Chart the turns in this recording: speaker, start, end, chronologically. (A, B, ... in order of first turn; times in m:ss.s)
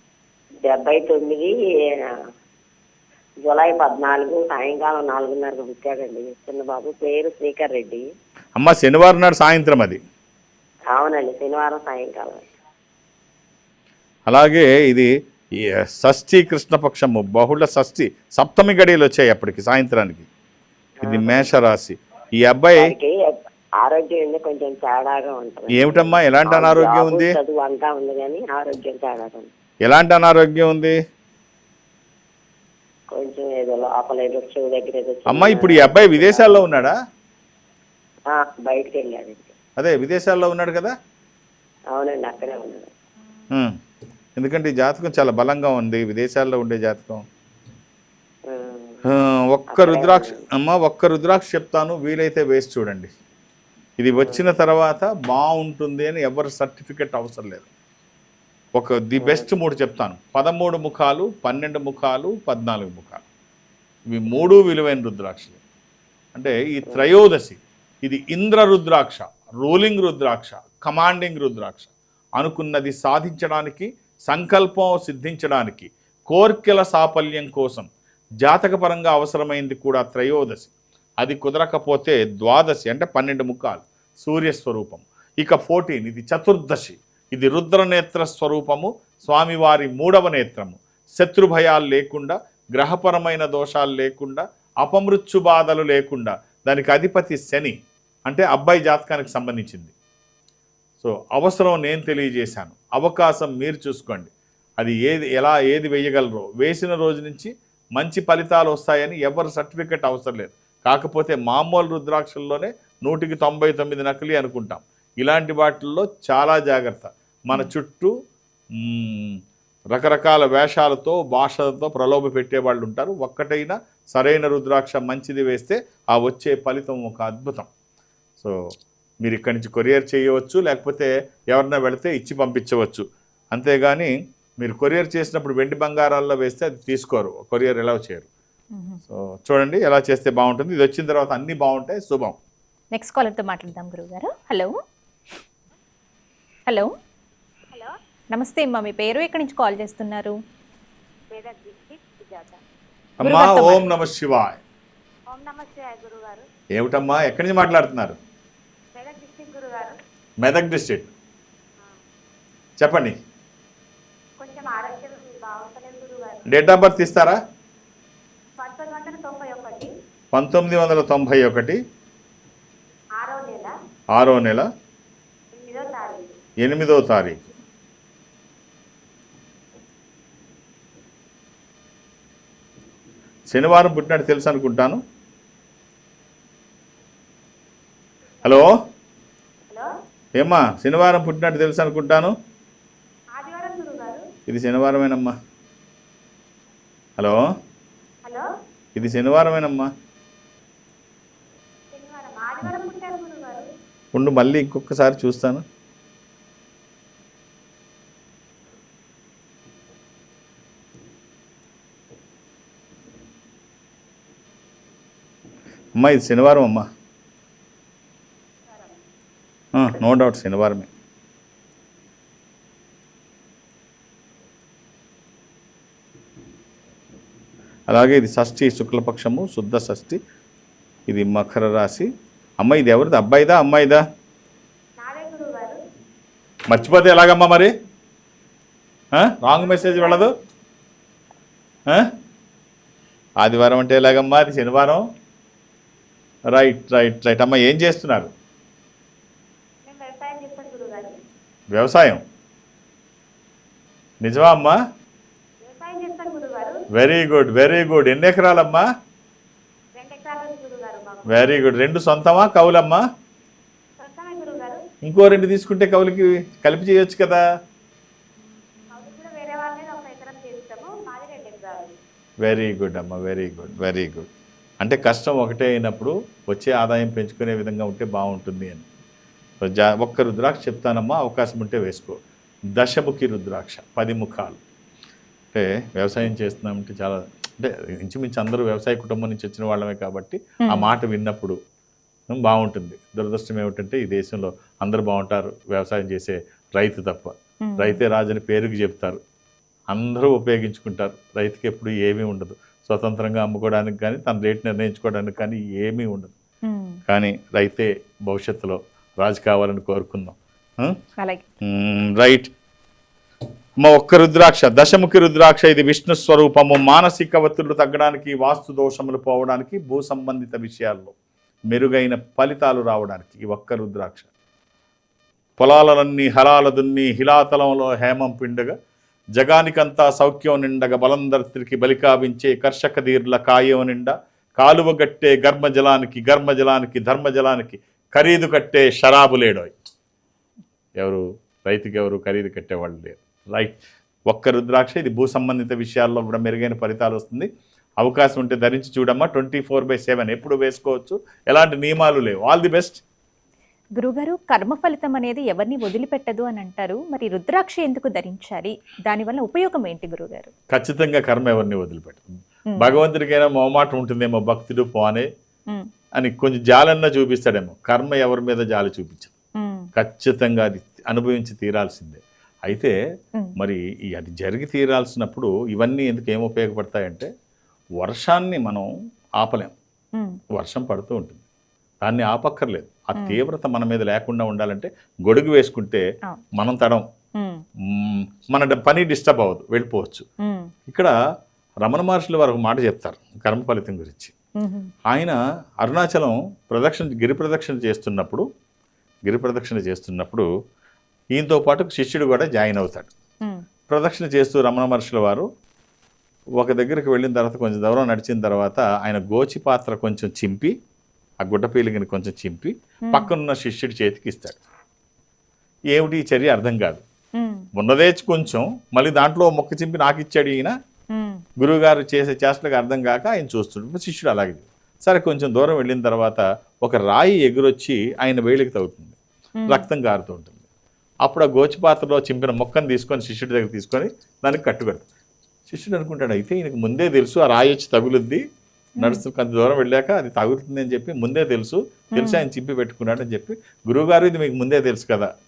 0:00.6-0:02.2 A
0:03.4-0:08.0 A
0:08.6-0:10.0 B
0:10.9-0:12.5 A
0:14.3-0:15.1 B
0:15.8-0:20.3 B
0:21.0-0:22.9 B
0:21.0-0:21.5 A
0:22.8-0:29.5 A
0:25.8-0:27.4 B
0:29.8-0:31.0 B
0:33.1-0:36.6 A
0:35.3-0:36.9 B
0:38.3-0:39.5 A
0:39.8-0:40.9 B
0:41.9-0:42.9 A
0:44.4-0:47.2 B
0:48.5-0:49.0 A
0:49.1-0:53.1 B
0:49.7-0:50.4 A
0:54.0-0:57.7 B
0:54.2-0:54.5 A
0:58.8-1:03.2 B
0:59.2-0:59.5 A
1:04.1-1:05.6 B
1:06.3-1:17.9 B
1:18.4-1:37.7 B
1:38.3-1:39.9 B
1:41.0-1:58.1 B
1:58.8-1:59.4 B
1:59.9-2:07.7 B
2:09.2-2:14.1 B
2:14.6-2:18.3 B
2:18.8-2:19.0 C
2:19.1-2:22.4 B
2:22.9-2:24.7 C
2:28.3-2:30.4 C
2:31.3-2:32.6 D
2:33.2-2:34.6 B
2:33.2-2:33.9 C
2:35.3-2:36.4 D
2:36.8-2:38.2 B
2:38.9-2:40.0 D
2:40.4-2:41.1 B
2:42.8-2:43.2 B
2:44.4-2:46.7 D
2:46.5-2:47.4 B
2:48.6-2:49.9 D
2:50.3-2:51.8 B
2:53.2-2:53.7 D
2:54.1-2:54.7 B
2:55.5-2:56.3 D
2:56.6-2:57.4 B
3:03.5-3:05.0 B
3:08.4-3:08.7 B
3:10.4-3:12.3 B
3:13.3-3:14.2 D
3:14.5-3:15.3 B
3:17.2-3:17.4 B
3:19.0-3:19.9 B
3:21.9-3:23.7 D
3:24.1-3:25.6 B
3:36.0-3:36.8 B
3:38.7-3:39.0 D
3:39.7-3:40.9 B
3:47.9-3:50.2 B
3:51.1-3:52.1 B
3:52.6-3:54.0 B
3:55.0-3:55.8 D
3:56.7-3:57.7 B
3:59.2-4:00.3 B
3:59.5-4:00.3 D
4:03.4-4:05.0 B
4:06.5-4:08.3 B
4:09.8-4:11.1 D
4:11.7-4:12.2 B
4:14.2-4:14.8 B
4:15.6-4:16.8 D
4:16.9-4:18.8 B
4:20.0-4:21.6 D
4:21.3-4:23.0 B
4:24.0-4:24.8 D
4:25.0-4:27.4 B
4:28.9-4:31.9 D
4:32.4-4:34.3 B
4:34.8-4:38.8 B
4:39.6-4:42.2 B
4:42.8-4:44.6 B
4:45.5-4:51.6 B
4:50.6-4:50.9 C
4:52.3-4:59.2 B
4:57.6-4:58.0 C
4:59.9-5:06.3 B
5:06.7-5:07.0 C
5:07.1-5:11.0 B
5:11.6-5:12.5 B
5:13.8-5:21.1 B
5:21.7-5:24.3 B
5:25.6-5:28.7 B
5:29.4-5:39.7 B
5:41.0-5:43.8 B
5:44.3-5:47.5 B
5:48.0-5:53.0 B
5:54.0-6:00.5 C
6:00.7-6:02.2 B
6:02.7-6:03.0 C
6:02.8-6:05.3 B
6:06.2-6:09.3 B
6:09.6-6:09.9 C
6:10.0-6:12.9 B
6:13.6-6:17.3 B
6:18.0-6:18.8 B
6:19.4-6:19.7 B
6:20.5-6:21.4 B
6:22.0-6:26.0 B
6:26.5-6:27.0 B
6:27.9-6:30.2 B
6:30.4-6:30.7 C
6:30.9-6:31.1 B
6:31.8-6:34.3 B
6:34.6-6:34.9 C
6:35.1-6:38.4 B
6:39.2-6:40.4 B
6:41.3-6:43.1 B
6:43.9-6:45.4 B
6:46.6-6:50.7 B
6:51.4-6:54.6 B
6:55.9-6:57.0 B
6:57.4-6:57.6 C
6:57.7-7:00.7 B
7:01.1-7:01.4 C
7:01.6-7:09.2 B
7:09.6-7:09.8 C
7:09.7-7:10.6 B
7:11.2-7:15.0 B
7:15.7-7:18.4 B
7:19.0-7:25.3 B
7:22.2-7:22.4 C